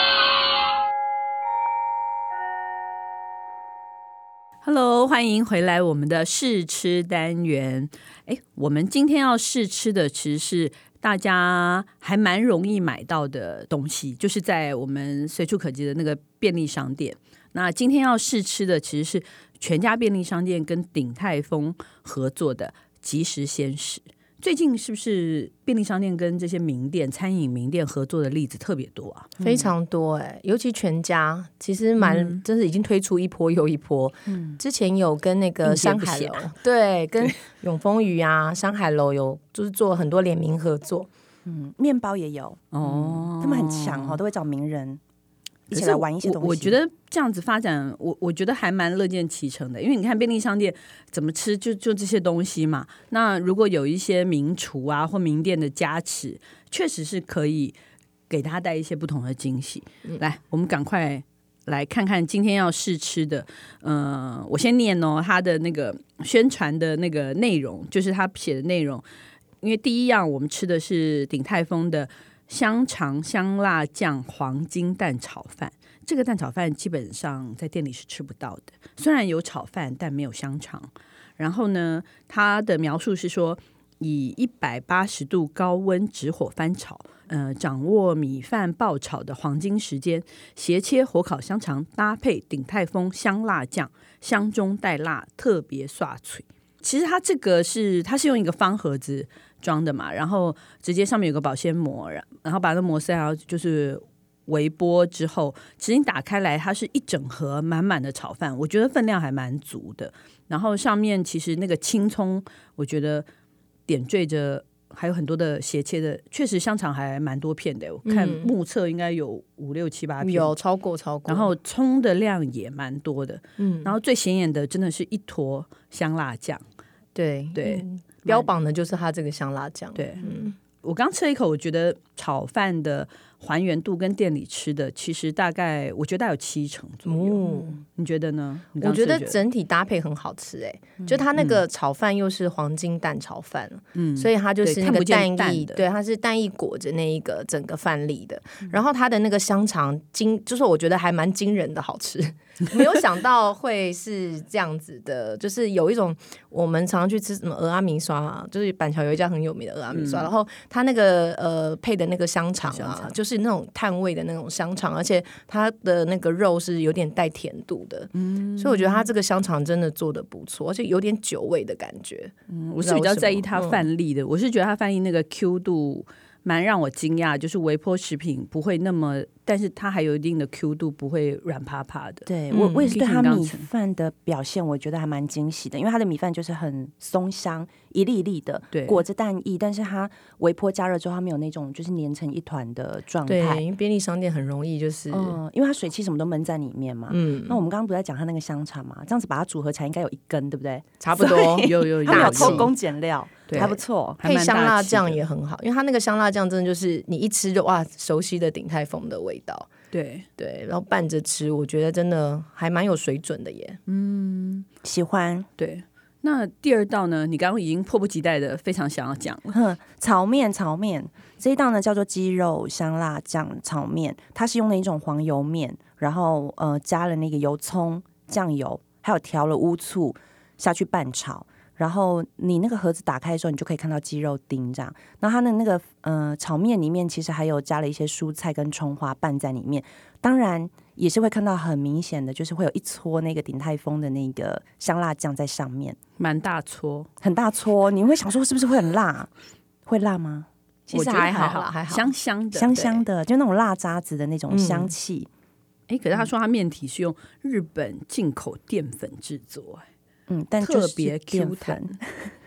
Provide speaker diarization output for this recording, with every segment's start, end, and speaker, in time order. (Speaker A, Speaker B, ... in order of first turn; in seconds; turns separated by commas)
Speaker A: 4.6-29.3, Speaker B: 29.4-29.7, Speaker C: 29.4-41.1, Speaker A: 32.0-32.4, Speaker B: 34.3-34.6, Speaker A: 35.6-36.5, Speaker B: 41.5-45.0, Speaker A: 42.7-44.2, Speaker B: 45.7-46.8, Speaker A: 45.7-57.7, Speaker A: 58.3-69.0, Speaker A: 69.6-113.2, Speaker A: 113.9-120.6, Speaker C: 118.1-118.5, Speaker C: 120.2-121.5, Speaker A: 121.3-126.6, Speaker C: 123.6-123.9, Speaker C: 127.1-130.6, Speaker A: 127.5-128.5, Speaker A: 129.9-139.4, Speaker C: 137.1-137.8, Speaker C: 138.8-173.8, Speaker A: 143.9-145.8, Speaker A: 159.9-160.3, Speaker A: 162.6-163.1, Speaker A: 168.1-169.1, Speaker A: 172.5-182.3, Speaker B: 182.3-193.6, Speaker C: 182.5-182.9, Speaker A: 182.9-183.7, Speaker A: 188.7-189.0, Speaker C: 193.3-195.4, Speaker B: 195.1-204.2, Speaker C: 197.1-197.6, Speaker C: 201.0-202.7, Speaker A: 201.6-202.7, Speaker A: 203.5-205.2, Speaker C: 203.6-209.7, Speaker A: 209.9-210.3, Speaker C: 210.4-213.8, Speaker A: 213.9-214.7, Speaker B: 214.8-215.5, Speaker A: 215.6-219.6, Speaker B: 219.5-246.0, Speaker A: 246.2-247.1, Speaker B: 247.2-249.3, Speaker B: 249.9-250.5, Speaker C: 250.9-252.1, Speaker A: 250.9-252.8, Speaker B: 252.5-255.3, Speaker C: 252.7-253.0, Speaker C: 254.5-254.9, Speaker A: 255.9-259.9, Speaker B: 260.3-261.9, Speaker A: 260.6-262.0